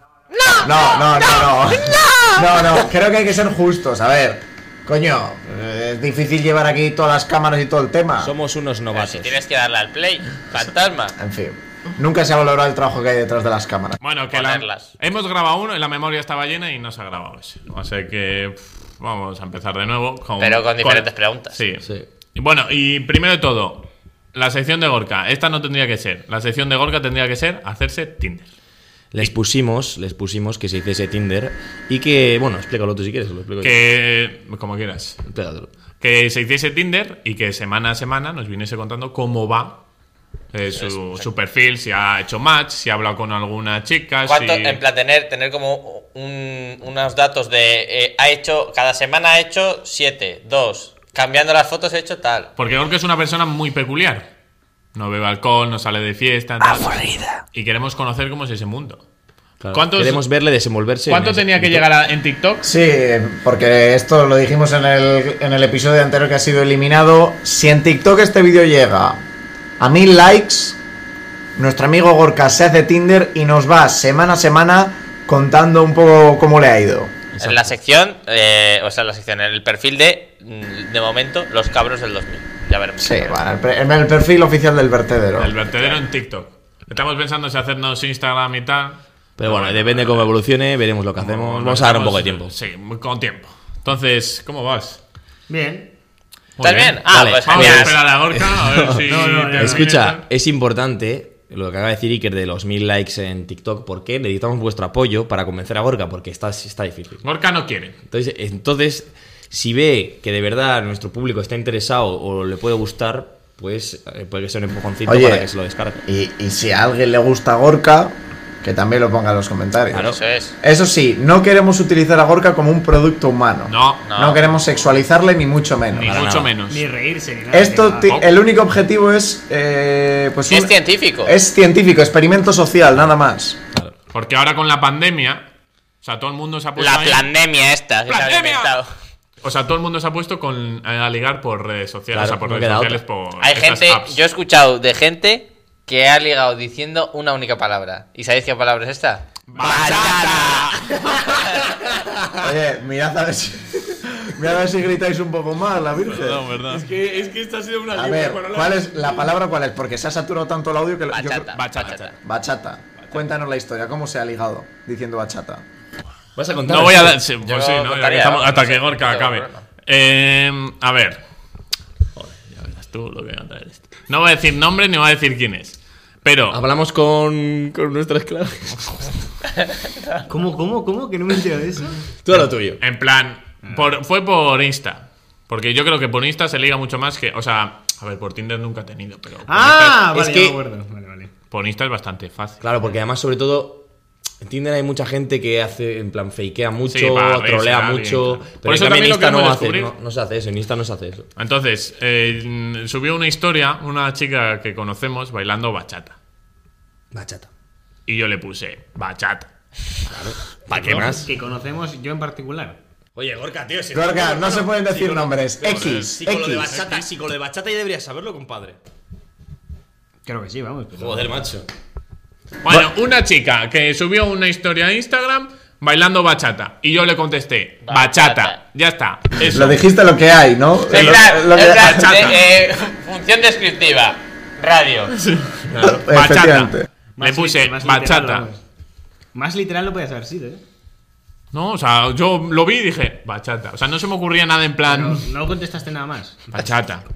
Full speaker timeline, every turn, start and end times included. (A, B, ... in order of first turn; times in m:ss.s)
0:00.4-0:00.7 A
0:00.6-0:08.3 B
0:01.4-0:02.3 A
0:08.2-0:09.4 C
0:08.9-0:11.1 A
0:11.2-0:14.0 B
0:14.0-0:28.5 D
0:14.3-0:14.9 A
0:20.4-0:21.6 A
0:29.1-0:33.8 C
0:33.6-0:35.2 D
0:35.2-0:35.7 C
0:36.0-0:39.8 D
0:40.5-0:44.8 D
0:40.7-0:41.3 A
0:44.3-0:52.5 A
0:52.6-0:54.3 D
0:54.9-0:59.0 D
0:56.9-0:57.4 A
0:59.6-1:01.8 C
0:59.7-1:00.2 D
1:01.1-1:02.7 D
1:02.6-1:09.2 B
1:09.8-1:10.8 B
1:11.6-1:17.1 B
1:17.3-1:17.7 C
1:17.4-1:23.4 A
1:23.0-1:25.5 B
1:25.4-1:30.3 D
1:29.4-1:32.5 C
1:31.2-1:35.0 D
1:35.5-1:35.9 E
1:36.6-1:40.2 D
1:36.6-1:38.0 A
1:37.0-1:47.2 C
1:39.0-1:39.9 E
1:47.2-1:48.0 D
1:48.1-1:56.0 C
1:55.0-1:55.5 B
1:56.1-2:06.3 B
1:59.9-2:00.2 C
2:00.0-2:00.5 A
2:03.7-2:04.0 D
2:04.0-2:04.4 A
2:05.9-2:06.8 D
2:06.0-2:06.5 C
2:06.7-2:08.2 E
2:07.5-2:13.6 B
2:10.5-2:11.3 A
2:14.1-2:15.4 D
2:16.0-2:17.3 D
2:16.8-2:18.9 A
2:18.1-2:18.8 D
2:19.4-2:24.2 D
2:22.1-2:23.0 C
2:23.4-2:31.7 A
2:29.5-2:31.6 D
2:32.4-2:36.5 B
2:36.1-2:37.1 D
2:36.7-2:38.6 C
2:37.9-2:41.6 B
2:38.0-2:39.1 D
2:41.1-2:42.1 A
2:41.6-2:42.1 D
2:42.2-2:45.6 B
2:46.4-2:47.3 C
2:46.6-2:51.2 D
2:47.4-2:49.6 A
2:52.2-2:56.6 D
2:56.5-2:59.0 C
3:00.3-3:02.0 E
3:02.2-3:02.8 C
3:02.8-3:10.1 D
3:03.6-3:03.9 E
3:09.5-3:11.3 E
3:10.1-3:10.6 C
3:11.5-3:12.6 D
3:12.6-3:13.8 C
3:14.4-3:21.3 C
3:16.9-3:19.9 D
3:21.4-3:26.2 D
3:27.1-3:27.5 C
3:28.1-3:29.5 D
3:30.1-3:31.3 C
3:30.7-3:32.8 E
3:30.7-3:31.0 D
3:33.1-3:38.8 C
3:33.9-3:36.7 B
3:35.6-3:36.1 D
3:36.7-3:37.1 D
3:40.2-3:41.4 E
3:41.0-3:41.7 C
3:42.6-3:49.8 D
3:47.8-3:48.6 A
3:49.4-3:52.2 B
3:50.9-3:55.2 A
3:50.9-3:52.5 D
3:55.2-3:58.4 D
3:55.7-3:56.0 C
3:55.8-3:56.9 B
3:57.2-3:58.6 E
3:59.3-4:00.6 E
4:01.5-4:05.2 D
4:04.8-4:06.7 E
4:06.5-4:07.0 D